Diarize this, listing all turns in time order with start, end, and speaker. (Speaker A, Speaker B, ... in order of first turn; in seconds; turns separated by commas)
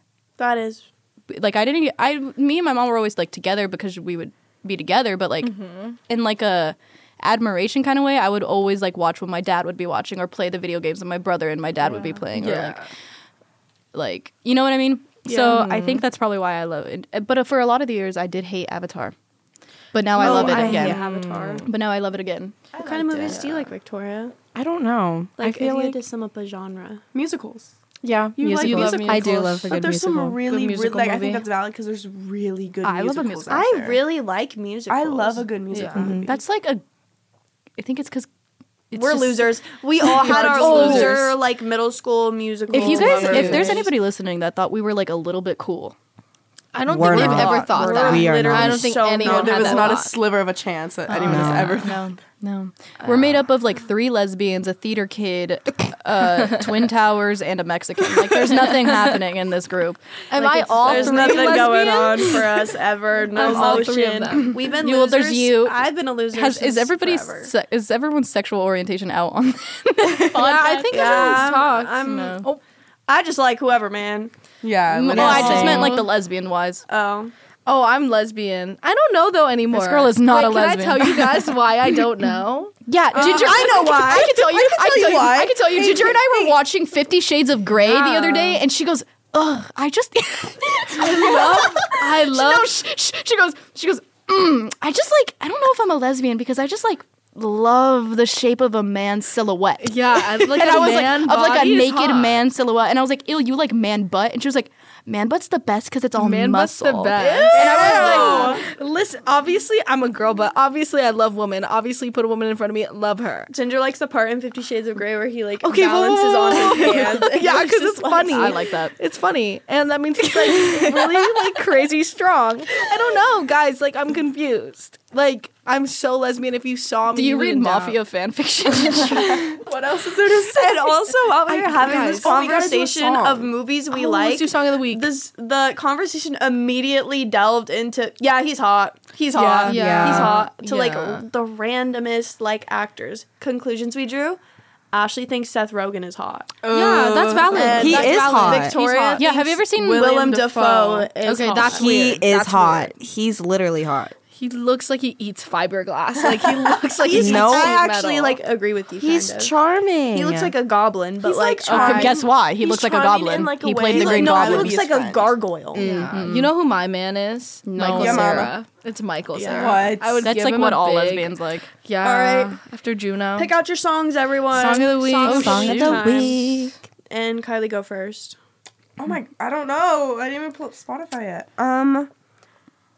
Speaker A: 0.4-0.9, Speaker B: 1.3-5.5, Speaker C: 5.4-6.0, Speaker B: 6.1-12.8, Speaker C: 12.3-12.9, Speaker B: 13.9-19.1, Speaker C: 15.3-16.0, Speaker B: 19.9-21.0, Speaker A: 20.2-21.6, Speaker C: 20.2-21.7, Speaker D: 20.3-21.0, Speaker B: 21.6-22.6, Speaker D: 22.7-23.4, Speaker A: 22.8-24.4, Speaker C: 23.3-23.7, Speaker E: 24.6-26.0, Speaker A: 25.4-27.0, Speaker D: 27.1-27.7, Speaker E: 28.0-29.6, Speaker D: 28.4-34.0, Speaker B: 28.4-30.4, Speaker C: 28.6-29.7, Speaker C: 30.4-31.5, Speaker B: 32.8-33.6, Speaker A: 33.5-36.1, Speaker D: 34.9-36.3, Speaker C: 35.7-36.1, Speaker E: 36.0-36.3, Speaker B: 36.2-36.8, Speaker B: 37.8-38.3, Speaker B: 38.9-41.3, Speaker A: 38.9-43.9, Speaker C: 40.2-41.3, Speaker D: 40.3-41.1, Speaker D: 42.7-43.9, Speaker B: 42.7-46.0, Speaker C: 43.0-43.8, Speaker C: 46.7-50.2, Speaker E: 46.9-49.0, Speaker B: 46.9-48.3, Speaker A: 47.7-50.2, Speaker D: 49.2-52.2, Speaker B: 51.1-62.3, Speaker E: 51.2-51.8, Speaker C: 53.0-53.4, Speaker C: 60.3-62.6, Speaker A: 60.4-67.5, Speaker C: 63.3-64.6, Speaker B: 63.4-65.8, Speaker B: 66.3-71.3, Speaker C: 70.3-72.6, Speaker A: 70.4-72.5, Speaker B: 72.1-72.4, Speaker A: 73.1-74.3, Speaker D: 74.6-76.1, Speaker B: 75.0-76.8, Speaker E: 75.1-75.9, Speaker A: 75.3-75.6, Speaker A: 76.9-77.3, Speaker C: 77.7-82.7, Speaker B: 79.7-82.0, Speaker B: 82.9-108.6, Speaker A: 83.2-84.3, Speaker D: 83.2-86.5, Speaker C: 87.7-88.6, Speaker C: 91.0-92.7, Speaker D: 91.0-91.8, Speaker C: 99.8-102.4, Speaker C: 106.2-113.5, Speaker A: 107.5-108.7, Speaker D: 107.5-108.6, Speaker A: 113.5-118.6, Speaker C: 115.6-128.0, Speaker D: 116.7-117.2, Speaker B: 118.3-119.0, Speaker B: 120.4-121.4, Speaker B: 127.1-129.6, Speaker D: 129.1-133.4, Speaker A: 130.4-144.4, Speaker C: 131.4-135.1, Speaker B: 139.3-140.5, Speaker C: 139.7-141.3, Speaker E: 139.7-140.3, Speaker A: 144.9-146.5, Speaker D: 146.6-148.2, Speaker C: 146.7-149.3, Speaker A: 147.5-152.2, Speaker E: 147.8-148.8, Speaker B: 149.2-150.4, Speaker D: 149.8-151.1, Speaker C: 151.2-153.0, Speaker E: 151.6-154.1, Speaker C: 154.3-158.4, Speaker D: 156.2-156.9, Speaker A: 157.0-159.5, Speaker E: 157.1-157.8, Speaker E: 159.0-160.6, Speaker A: 160.1-162.3, Speaker D: 161.2-165.4, Speaker B: 161.7-164.8, Speaker A: 163.9-166.0, Speaker B: 165.8-166.5, Speaker C: 165.8-173.6, Speaker B: 167.7-168.5, Speaker D: 167.9-168.5, Speaker A: 169.3-169.9, Speaker D: 169.5-170.3, Speaker B: 170.2-171.7, Speaker A: 172.0-172.6, Speaker A: 173.3-178.4, Speaker C: 174.5-176.3, Speaker B: 175.2-176.0, Speaker E: 175.2-176.8, Speaker D: 179.0-182.1